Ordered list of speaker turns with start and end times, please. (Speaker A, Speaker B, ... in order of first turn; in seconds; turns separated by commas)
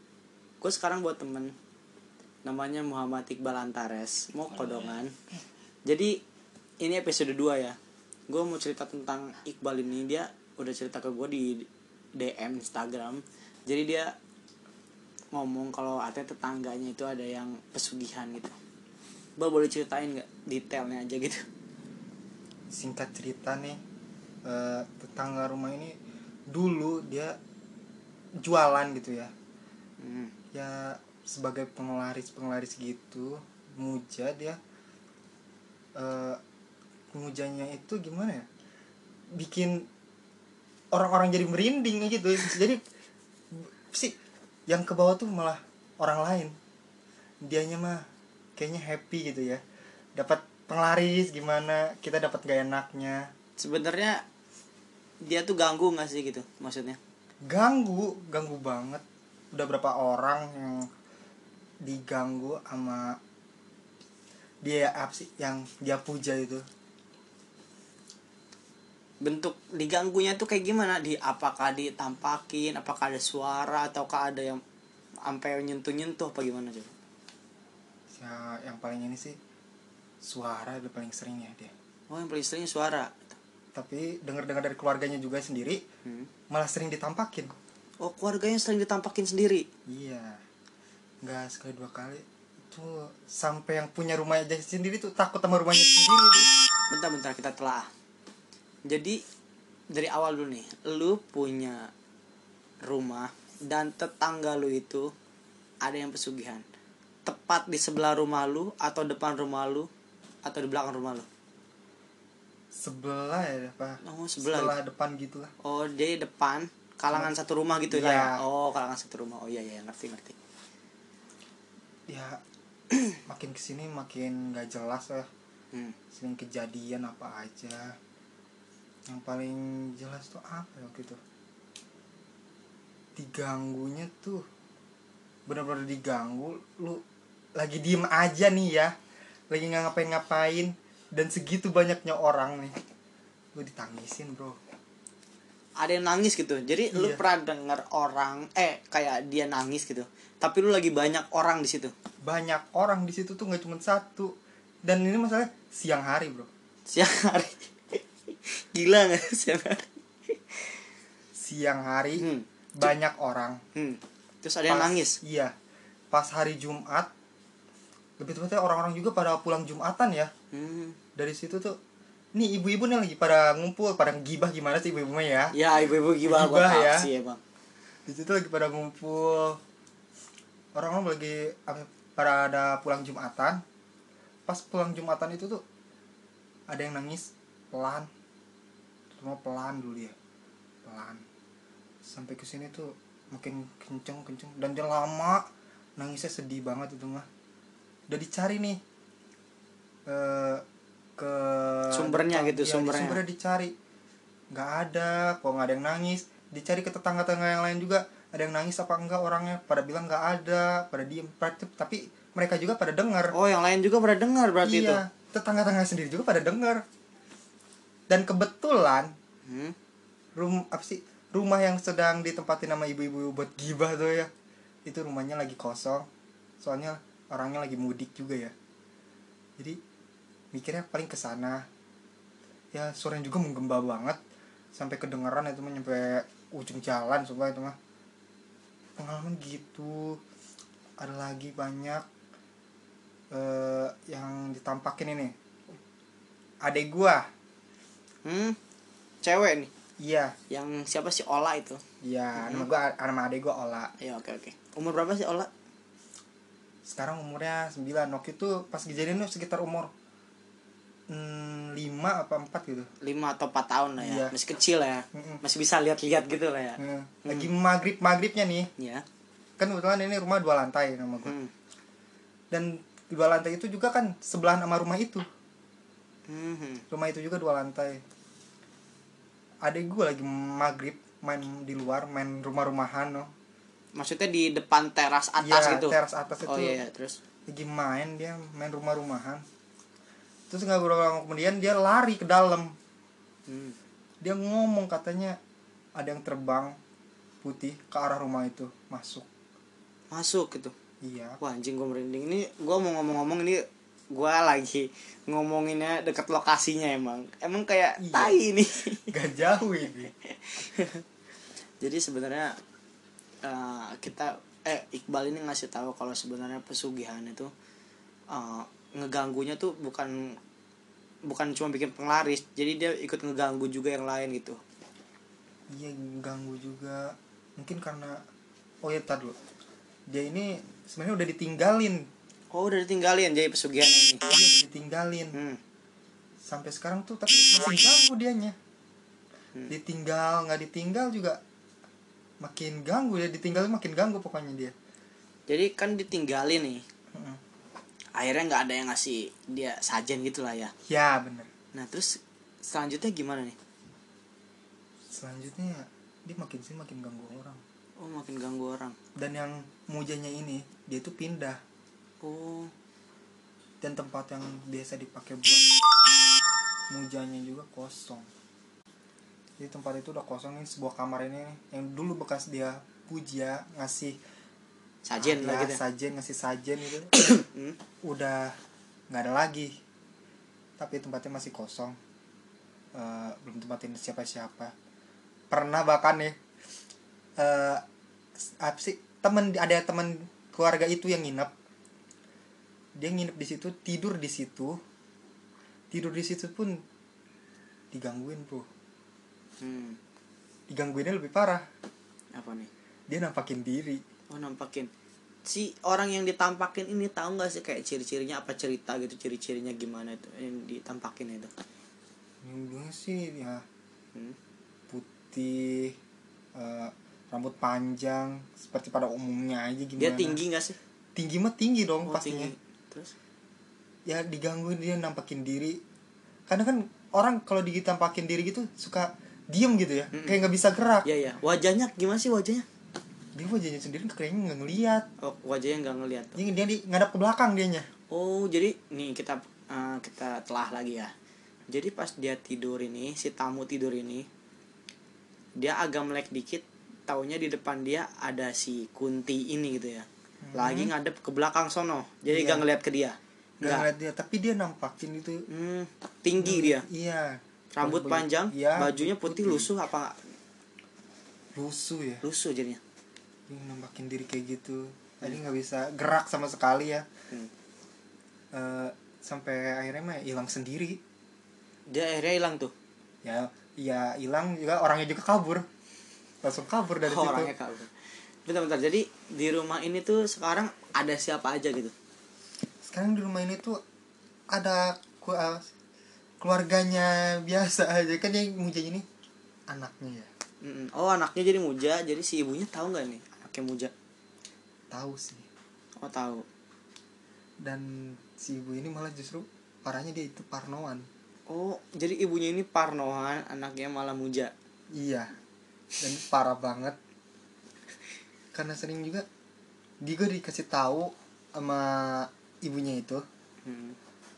Speaker A: 0.6-1.5, Speaker A: 2.4-5.1, Speaker A: 5.8-6.2, Speaker A: 6.8-7.8, Speaker A: 8.3-14.1, Speaker A: 15.3-18.5, Speaker A: 19.4-21.4, Speaker B: 22.7-23.8, Speaker B: 24.4-25.9, Speaker B: 26.5-27.4, Speaker B: 28.4-29.3, Speaker A: 30.0-30.3, Speaker B: 30.5-34.6, Speaker B: 36.0-36.4, Speaker B: 37.1-38.5, Speaker B: 39.3-39.9, Speaker B: 40.9-42.8, Speaker B: 43.5-44.1, Speaker B: 44.7-46.5, Speaker B: 47.4-48.0, Speaker B: 48.6-49.6, Speaker B: 50.1-53.3, Speaker A: 53.6-54.2, Speaker A: 55.2-57.0, Speaker B: 57.4-60.9, Speaker B: 61.8-63.2, Speaker B: 64.6-66.6, Speaker A: 69.2-74.6, Speaker A: 75.2-76.9, Speaker B: 78.1-79.4, Speaker B: 80.2-81.7, Speaker A: 82.1-83.3, Speaker B: 83.7-85.8, Speaker A: 86.0-86.3, Speaker B: 86.5-87.5, Speaker A: 88.0-89.7, Speaker B: 89.9-90.4, Speaker B: 91.2-96.5, Speaker A: 96.9-97.9, Speaker A: 98.9-99.2, Speaker A: 99.9-101.9, Speaker A: 102.8-105.1, Speaker A: 105.8-106.6, Speaker A: 107.2-109.9, Speaker A: 110.4-111.2, Speaker B: 112.7-115.5, Speaker A: 114.0-114.7, Speaker A: 115.6-120.3, Speaker B: 117.9-118.4, Speaker B: 122.1-122.4, Speaker B: 123.2-125.3, Speaker B: 126.1-128.0, Speaker B: 129.1-131.2, Speaker B: 133.2-134.4, Speaker B: 135.5-137.0, Speaker B: 137.6-138.9, Speaker B: 139.5-142.8, Speaker B: 143.5-144.6, Speaker A: 145.8-151.9, Speaker B: 146.9-147.2, Speaker B: 152.2-156.5, Speaker A: 156.9-160.7, Speaker B: 161.3-163.6, Speaker A: 162.2-162.9, Speaker A: 163.7-165.2, Speaker B: 164.7-165.5, Speaker B: 166.1-167.1, Speaker B: 168.2-170.3, Speaker A: 170.5-171.0, Speaker B: 171.2-171.8, Speaker B: 172.3-175.5, Speaker A: 175.5-177.4, Speaker B: 176.2-177.1, Speaker B: 178.1-179.6, Speaker B: 180.7-183.6, Speaker B: 184.5-185.6, Speaker B: 186.7-188.1, Speaker B: 189.1-190.2, Speaker B: 190.8-191.2, Speaker B: 192.0-195.4, Speaker B: 196.0-197.2, Speaker B: 198.1-198.8, Speaker B: 200.1-200.6, Speaker B: 201.2-203.7, Speaker A: 201.9-203.2, Speaker B: 204.5-213.3, Speaker A: 213.3-215.0, Speaker B: 214.6-216.8, Speaker B: 218.1-219.1, Speaker A: 219.4-219.7, Speaker B: 220.3-224.3, Speaker B: 224.8-226.1, Speaker B: 226.6-228.5, Speaker B: 230.5-231.7, Speaker B: 232.7-234.2, Speaker B: 234.7-237.8, Speaker B: 239.0-240.2, Speaker B: 241.0-242.0, Speaker B: 243.3-245.3, Speaker B: 246.6-247.3, Speaker A: 248.2-248.6, Speaker A: 249.2-249.7, Speaker B: 250.0-250.3, Speaker A: 250.5-251.8, Speaker B: 252.0-253.9, Speaker A: 252.3-252.7, Speaker A: 254.0-255.5, Speaker B: 256.9-259.9, Speaker B: 261.1-262.9, Speaker A: 263.0-267.5, Speaker B: 264.0-264.3, Speaker B: 265.1-265.4, Speaker B: 266.8-268.7, Speaker A: 268.8-269.0, Speaker B: 269.6-271.4, Speaker A: 271.2-271.5, Speaker B: 272.5-275.2, Speaker A: 276.3-276.8, Speaker B: 276.9-278.0, Speaker B: 279.6-283.3, Speaker A: 283.9-287.2, Speaker B: 285.4-286.8, Speaker B: 287.5-289.4, Speaker B: 290.5-292.7, Speaker A: 293.5-293.8, Speaker B: 294.2-295.4, Speaker B: 295.9-296.8, Speaker B: 297.4-299.3, Speaker A: 300.1-300.7, Speaker B: 301.0-301.4, Speaker A: 301.4-309.1, Speaker B: 308.0-308.4, Speaker B: 309.1-310.1, Speaker A: 310.2-311.0, Speaker A: 311.8-312.5, Speaker A: 313.4-317.5, Speaker A: 318.3-320.4, Speaker A: 321.2-324.6, Speaker B: 325.7-328.2, Speaker B: 328.8-329.4, Speaker B: 330.1-332.1, Speaker A: 332.5-334.2, Speaker B: 334.3-335.4, Speaker A: 335.3-335.6, Speaker B: 336.4-338.6, Speaker B: 339.7-341.4, Speaker B: 342.4-344.7, Speaker A: 345.5-346.8, Speaker B: 347.1-347.4, Speaker A: 348.1-350.7, Speaker B: 350.9-351.5, Speaker A: 351.7-353.6, Speaker B: 355.1-357.6, Speaker A: 358.0-358.9, Speaker B: 359.1-361.6, Speaker A: 362.2-362.7, Speaker B: 363.8-365.7, Speaker B: 366.9-368.3, Speaker B: 369.6-374.2, Speaker A: 375.0-375.8, Speaker B: 375.2-377.3, Speaker A: 377.2-377.8, Speaker B: 378.0-378.6, Speaker B: 379.1-379.8, Speaker B: 380.8-382.0, Speaker B: 382.9-384.7, Speaker B: 385.5-386.4, Speaker B: 387.4-387.8, Speaker B: 388.4-391.5, Speaker B: 392.9-394.8, Speaker B: 395.9-396.8, Speaker B: 397.9-398.7, Speaker A: 399.6-400.0, Speaker B: 400.7-401.6, Speaker A: 402.3-402.7, Speaker B: 403.1-404.0, Speaker A: 404.3-404.9, Speaker A: 405.4-411.5, Speaker B: 412.4-413.6, Speaker B: 414.9-415.9, Speaker B: 416.5-420.4, Speaker A: 420.0-420.8, Speaker B: 421.1-422.5, Speaker A: 422.1-423.1, Speaker B: 424.1-425.8, Speaker B: 426.5-431.1, Speaker A: 431.0-432.6, Speaker B: 433.3-435.1, Speaker A: 435.2-436.4, Speaker B: 436.4-437.9, Speaker A: 438.1-441.1, Speaker A: 441.7-444.3, Speaker A: 445.6-453.9, Speaker B: 450.4-450.9, Speaker B: 452.2-452.6, Speaker B: 453.6-455.4, Speaker A: 455.5-456.8, Speaker B: 456.4-459.7, Speaker A: 457.7-460.1, Speaker B: 461.5-462.2, Speaker A: 462.2-462.8, Speaker B: 463.5-467.1, Speaker B: 468.5-471.0, Speaker A: 471.9-472.7, Speaker B: 473.2-475.6, Speaker B: 476.4-477.5, Speaker A: 477.0-477.9, Speaker A: 478.4-481.9, Speaker B: 482.8-483.8, Speaker B: 484.5-485.7, Speaker B: 486.4-489.1, Speaker B: 489.7-490.3, Speaker A: 490.6-493.9, Speaker B: 494.9-495.4, Speaker A: 496.0-496.4, Speaker B: 497.6-501.1, Speaker A: 501.5-504.5, Speaker B: 504.9-505.3, Speaker B: 506.0-507.0, Speaker B: 508.5-509.2, Speaker B: 510.0-513.2, Speaker A: 513.6-514.0